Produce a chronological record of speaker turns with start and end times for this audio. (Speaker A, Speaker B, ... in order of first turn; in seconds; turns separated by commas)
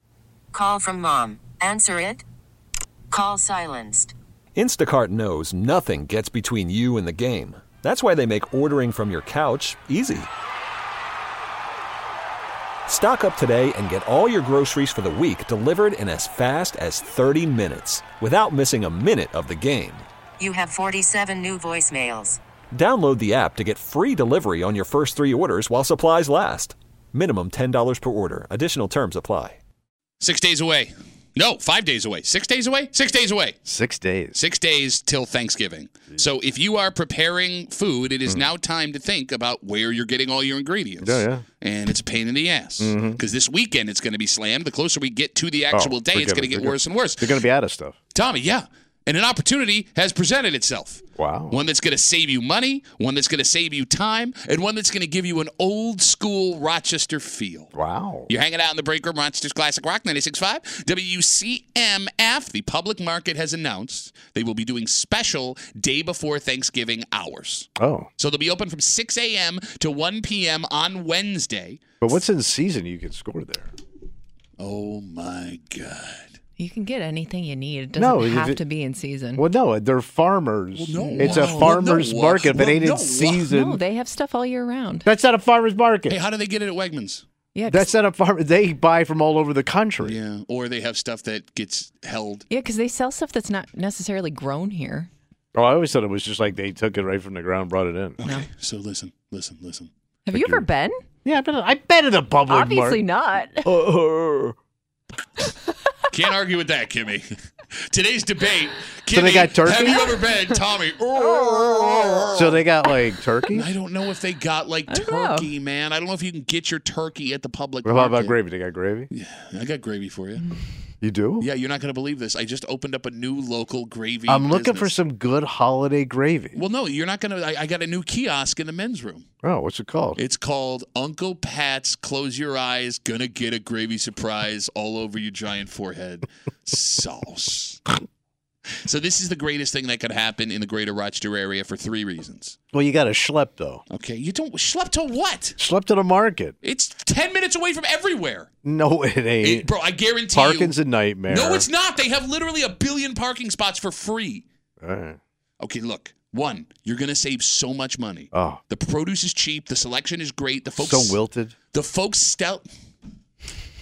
Speaker A: 0.5-2.2, Speaker A: 3.1-4.1, Speaker B: 4.6-10.3, Speaker B: 12.9-20.1, Speaker A: 20.4-22.4, Speaker B: 22.7-29.6, Speaker C: 30.2-33.6, Speaker D: 33.7-34.4, Speaker C: 34.4-47.4, Speaker D: 41.0-41.4, Speaker D: 42.8-43.2, Speaker D: 45.7-48.0, Speaker C: 48.1-57.7, Speaker D: 51.2-51.6, Speaker D: 57.7-58.3, Speaker C: 58.3-71.8, Speaker D: 67.8-68.1, Speaker D: 72.0-73.7, Speaker C: 74.6-76.3, Speaker E: 76.6-79.4, Speaker D: 78.0-78.6, Speaker D: 79.3-83.8, Speaker C: 80.8-83.5, Speaker E: 81.0-81.8, Speaker E: 83.5-85.1, Speaker D: 85.0-86.2, Speaker C: 86.1-87.2, Speaker E: 87.5-87.9, Speaker D: 87.7-90.2, Speaker C: 90.0-92.5, Speaker E: 92.5-95.1, Speaker D: 95.5-98.2, Speaker C: 98.2-99.9, Speaker E: 100.3-101.0, Speaker D: 100.3-100.7, Speaker D: 101.2-103.1, Speaker E: 102.5-103.7, Speaker D: 103.6-104.6, Speaker C: 106.1-107.3, Speaker C: 107.9-112.7, Speaker D: 109.1-110.1, Speaker E: 111.2-112.3, Speaker D: 112.3-113.7, Speaker C: 113.5-118.4, Speaker E: 114.9-115.5, Speaker D: 117.8-119.1, Speaker C: 119.1-120.4, Speaker D: 121.0-121.5, Speaker C: 121.4-125.0, Speaker D: 124.3-126.6, Speaker C: 126.5-129.2, Speaker D: 129.4-130.2, Speaker C: 130.2-137.8, Speaker C: 138.8-142.6, Speaker D: 142.7-143.8, Speaker C: 143.9-145.6, Speaker D: 145.6-146.6, Speaker C: 146.6-148.5, Speaker D: 148.6-149.7, Speaker C: 149.4-150.8, Speaker D: 150.3-151.7, Speaker C: 151.3-154.4, Speaker D: 154.8-155.2, Speaker C: 155.6-161.2, Speaker D: 158.3-158.6, Speaker D: 160.8-161.5, Speaker C: 161.7-162.7